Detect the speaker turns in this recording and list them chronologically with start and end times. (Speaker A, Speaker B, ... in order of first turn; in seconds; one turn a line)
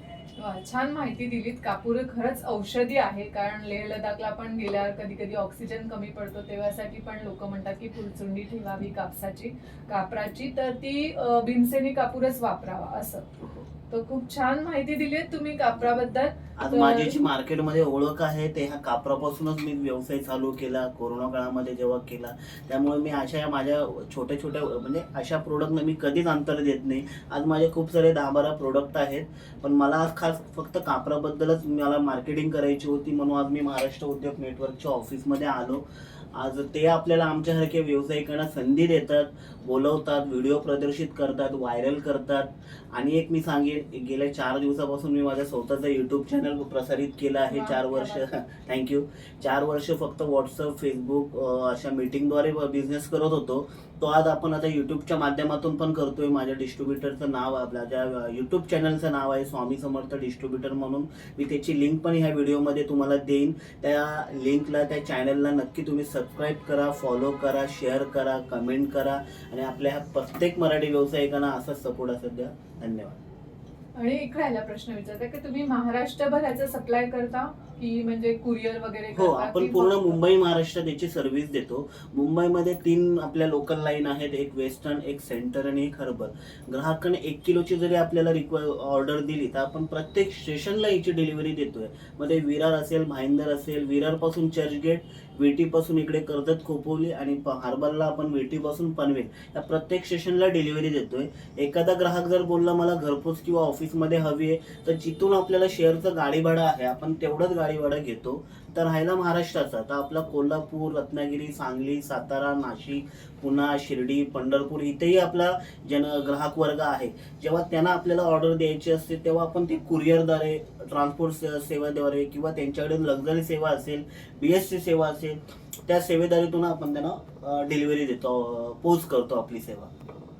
Speaker A: 0.4-13.2
Speaker B: 13.4-13.7
Speaker A: 13.9-17.1
Speaker B: 16.6-73.2
Speaker A: 47.5-48.2
Speaker A: 74.0-80.2
Speaker B: 79.1-129.9